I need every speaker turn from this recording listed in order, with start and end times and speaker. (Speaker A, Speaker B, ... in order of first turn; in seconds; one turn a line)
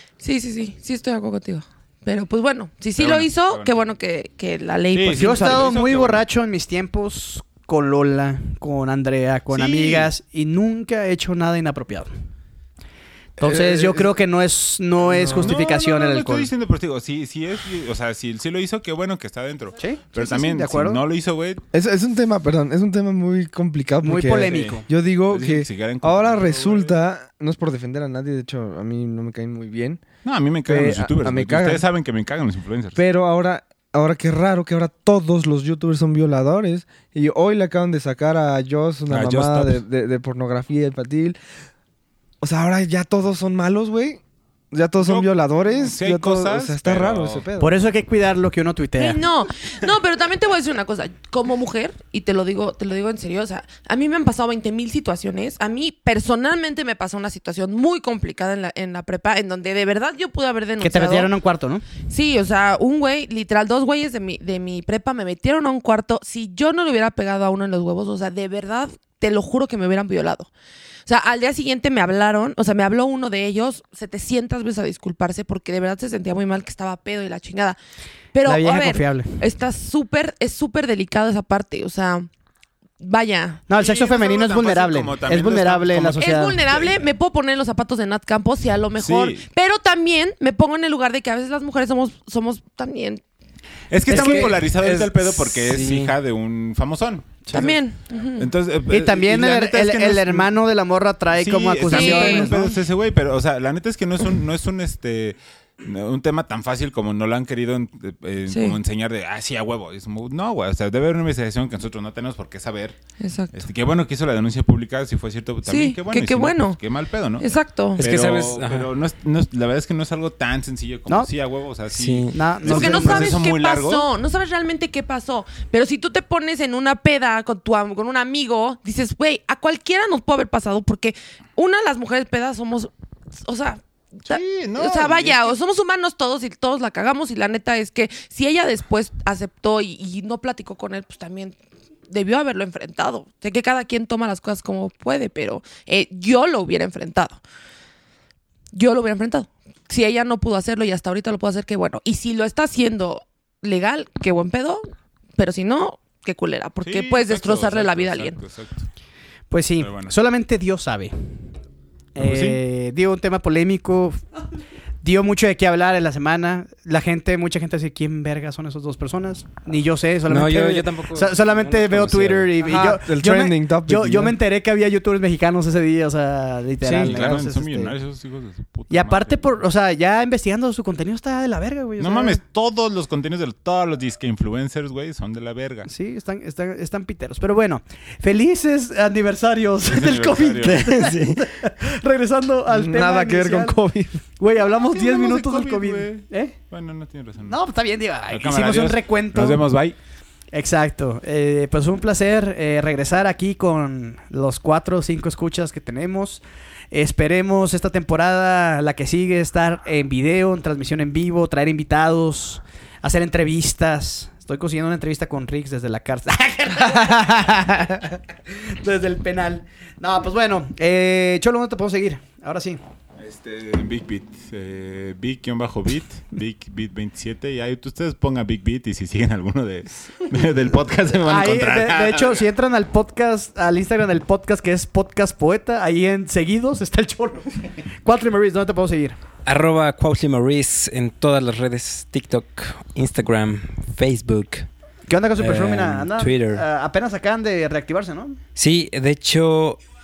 Speaker A: 0.2-5.8
Speaker B: 3.0-3.8
Speaker B: 4.9-6.2
Speaker C: 5.2-12.1
Speaker B: 9.5-10.1
Speaker C: 13.4-16.5
Speaker D: 13.4-14.1
Speaker D: 15.0-15.6
Speaker B: 15.4-21.6
Speaker C: 19.8-21.0
Speaker D: 21.7-30.0
Speaker C: 24.0-24.9
Speaker B: 24.4-26.9
Speaker B: 30.2-33.0
Speaker D: 30.6-31.8
Speaker D: 33.0-41.4
Speaker B: 39.1-39.8
Speaker D: 42.4-47.8
Speaker B: 45.0-47.5
Speaker C: 47.6-49.2
Speaker A: 49.0-61.3
Speaker C: 60.8-61.8
Speaker A: 62.1-70.5
Speaker A: 71.0-77.8
Speaker A: 78.3-82.3
Speaker C: 78.4-79.4
Speaker A: 83.0-83.6
Speaker C: 83.7-86.6
Speaker B: 83.8-87.0
Speaker A: 86.2-93.2
Speaker B: 89.0-89.4
Speaker B: 93.9-97.8
Speaker E: 94.1-96.2
Speaker C: 94.1-94.6
Speaker A: 97.5-98.5
Speaker B: 98.3-100.5
Speaker C: 98.9-102.8
Speaker B: 101.3-113.0
Speaker A: 101.8-102.5
Speaker A: 108.5-108.8
Speaker A: 113.2-113.6
Speaker B: 113.5-124.0
Speaker A: 115.7-116.8
Speaker A: 117.4-118.0
Speaker E: 118.0-118.9
Speaker E: 121.9-122.3
Speaker C: 122.3-123.4
Speaker A: 122.6-141.6
Speaker B: 134.3-135.5
Speaker A: 142.1-147.4
Speaker A: 148.7-158.4
Speaker B: 156.8-158.9
Speaker C: 159.5-161.3
Speaker B: 159.8-160.1
Speaker C: 162.1-164.2
Speaker B: 162.2-162.6
Speaker C: 165.0-177.9
Speaker E: 170.3-172.8
Speaker D: 172.6-174.3
Speaker D: 176.8-177.3
Speaker B: 177.0-179.6
Speaker C: 178.9-182.4
Speaker B: 182.0-185.9
Speaker C: 185.9-193.8
Speaker B: 189.8-191.1
Speaker E: 190.7-191.4
Speaker D: 192.7-194.2
Speaker C: 194.4-196.6
Speaker B: 194.6-197.6
Speaker C: 197.4-199.6
Speaker B: 198.3-199.9
Speaker C: 200.5-222.8
Speaker B: 223.2-232.4
Speaker C: 231.2-239.2
Speaker E: 239.4-244.7
Speaker C: 245.1-248.4
Speaker E: 245.4-246.6
Speaker E: 248.6-249.8